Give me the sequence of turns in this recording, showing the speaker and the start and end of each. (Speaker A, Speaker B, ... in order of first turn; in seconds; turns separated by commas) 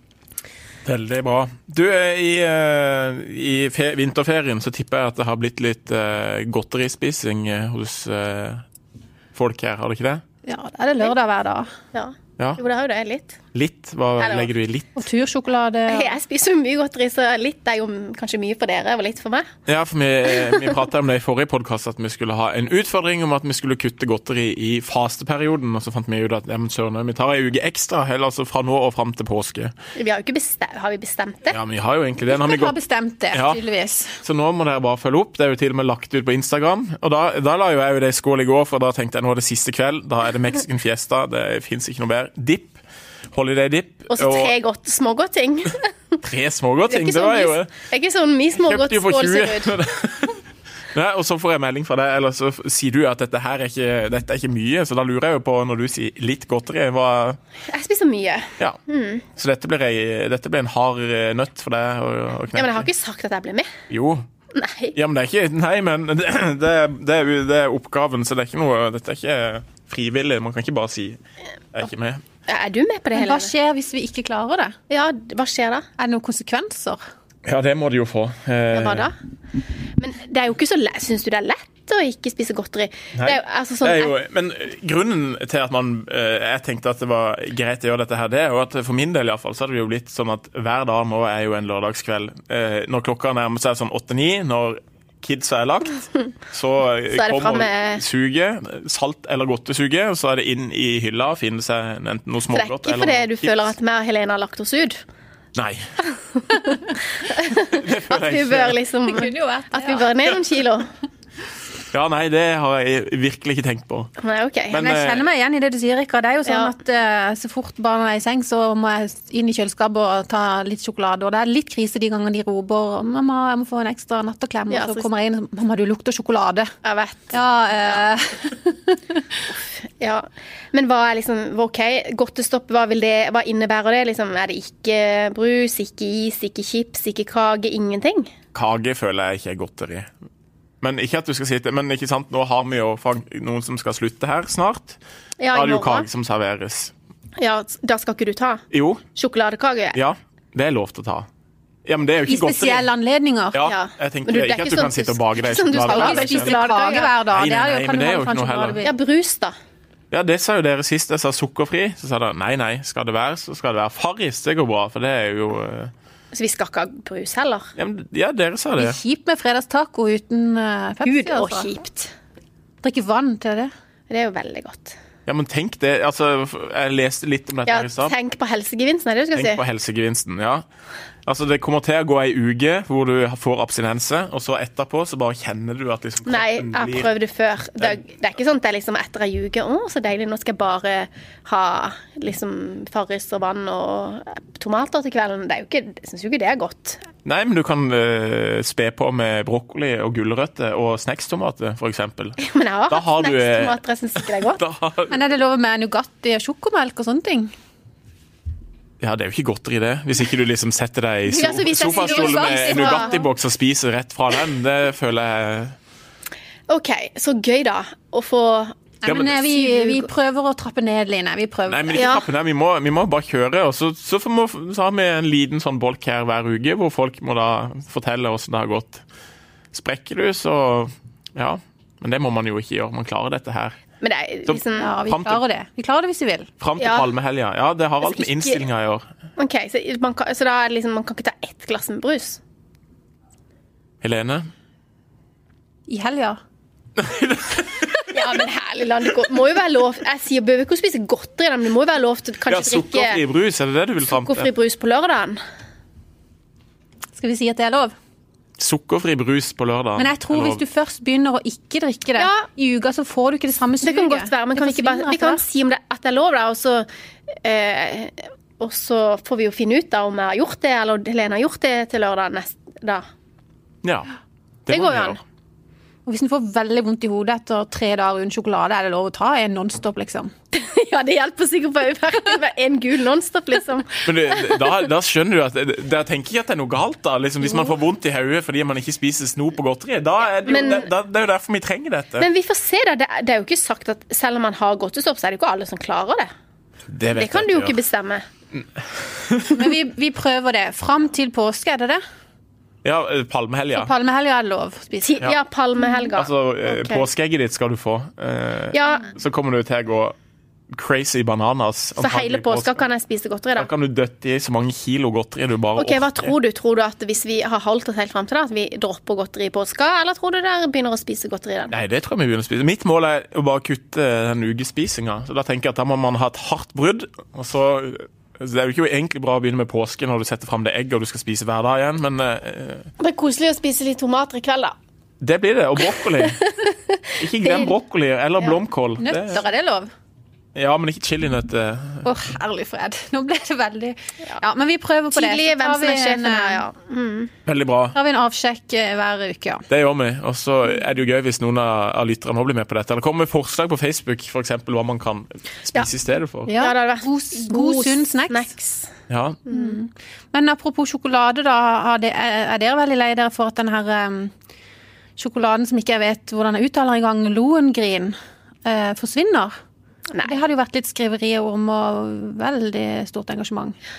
Speaker A: 0.8-8.6, Speaker A: 9.3-10.2, Speaker B: 10.4-11.7, Speaker C: 11.9-13.4, Speaker A: 13.5-15.0, Speaker C: 14.2-14.5, Speaker B: 14.9-16.1, Speaker C: 15.9-19.5, Speaker A: 19.7-29.7, Speaker C: 29.9-31.6, Speaker A: 31.5-32.7, Speaker B: 32.3-34.2, Speaker A: 33.3-33.6, Speaker A: 34.2-42.8, Speaker A: 43.3-44.5, Speaker C: 44.1-45.9, Speaker A: 46.2-47.7, Speaker C: 46.9-49.8, Speaker A: 48.6-50.4, Speaker A: 50.9-57.4, Speaker C: 57.7-59.2, Speaker A: 59.3-62.9, Speaker C: 62.5-63.7, Speaker A: 63.9-64.3, Speaker C: 64.5-64.9, Speaker A: 64.9-71.2, Speaker A: 71.7-72.2, Speaker C: 72.5-73.5, Speaker B: 73.1-74.8, Speaker C: 74.9-75.8, Speaker B: 76.0-77.0, Speaker A: 77.5-79.1, Speaker C: 78.7-79.2, Speaker C: 80.0-84.1, Speaker A: 83.1-103.7, Speaker C: 97.1-98.0, Speaker C: 102.5-105.0, Speaker A: 105.5-105.9, Speaker C: 106.3-110.9, Speaker A: 107.6-108.8, Speaker B: 109.0-110.1, Speaker A: 111.9-114.1, Speaker C: 114.2-114.8, Speaker A: 114.7-115.2, Speaker B: 114.7-126.7, Speaker C: 124.7-125.0, Speaker C: 126.8-127.3, Speaker B: 127.3-129.4, Speaker C: 129.5-138.3, Speaker A: 138.5-140.1, Speaker A: 140.8-145.0, Speaker C: 145.4-146.1, Speaker A: 145.5-146.9, Speaker C: 147.4-150.0, Speaker A: 148.7-149.0, Speaker A: 149.9-151.3, Speaker A: 151.8-152.9, Speaker B: 152.2-153.6, Speaker A: 153.5-158.8, Speaker C: 153.6-157.1, Speaker B: 155.8-159.0, Speaker C: 158.8-159.5, Speaker A: 160.1-165.9, Speaker C: 166.3-167.7, Speaker A: 167.8-169.0, Speaker B: 168.8-171.7, Speaker C: 171.0-172.1, Speaker B: 172.8-173.7, Speaker C: 174.1-175.0, Speaker A: 175.2-178.1, Speaker C: 177.7-179.6, Speaker A: 179.3-180.6, Speaker A: 181.2-187.1, Speaker C: 186.2-197.1, Speaker A: 197.2-202.4, Speaker C: 202.4-204.6, Speaker A: 202.9-205.1, Speaker B: 205.1-207.5, Speaker A: 209.0-215.8, Speaker C: 211.3-213.1, Speaker B: 211.7-213.2, Speaker C: 216.7-220.1, Speaker B: 219.0-222.1, Speaker A: 219.1-219.4, Speaker A: 221.7-229.0, Speaker C: 221.9-222.2, Speaker A: 229.7-233.8, Speaker C: 234.0-234.9, Speaker A: 234.5-235.4, Speaker B: 234.8-236.5, Speaker A: 236.6-239.1, Speaker C: 236.8-237.1, Speaker C: 238.0-238.6, Speaker C: 239.4-242.4, Speaker A: 244.0-244.5, Speaker B: 245.9-246.4, Speaker A: 247.0-248.2, Speaker C: 248.1-253.2, Speaker A: 252.5-254.5, Speaker C: 254.1-255.4, Speaker B: 257.1-257.9, Speaker A: 258.6-260.6, Speaker B: 260.0-265.4, Speaker C: 262.2-262.5, Speaker C: 263.8-266.9, Speaker C: 267.4-273.0, Speaker A: 273.8-274.1, Speaker A: 274.6-275.2, Speaker C: 274.7-275.2, Speaker B: 276.1-280.3, Speaker C: 280.5-284.7, Speaker A: 284.0-292.3, Speaker C: 290.4-290.9, Speaker C: 292.2-296.3, Speaker A: 296.9-297.8, Speaker C: 297.1-298.2, Speaker A: 298.5-299.7, Speaker B: 299.5-302.0, Speaker A: 302.8-303.9, Speaker B: 303.7-305.2, Speaker C: 305.0-307.1, Speaker A: 306.1-310.1, Speaker C: 308.7-309.1, Speaker A: 310.7-312.8, Speaker C: 312.0-313.7, Speaker A: 313.6-316.3, Speaker C: 315.8-321.8, Speaker A: 321.7-332.9, Speaker C: 333.0-334.7, Speaker A: 335.2-336.4, Speaker C: 336.0-337.7, Speaker A: 337.2-339.4, Speaker B: 339.0-339.9, Speaker A: 340.5-342.1, Speaker B: 342.0-346.6, Speaker C: 345.1-347.3, Speaker A: 347.4-347.9, Speaker B: 347.9-349.6, Speaker A: 349.7-356.5, Speaker B: 356.5-358.5, Speaker C: 356.6-358.9, Speaker A: 359.1-359.4, Speaker C: 359.5-359.8, Speaker B: 359.5-364.3, Speaker B: 365.2-369.5, Speaker C: 370.1-370.4, Speaker B: 370.2-373.8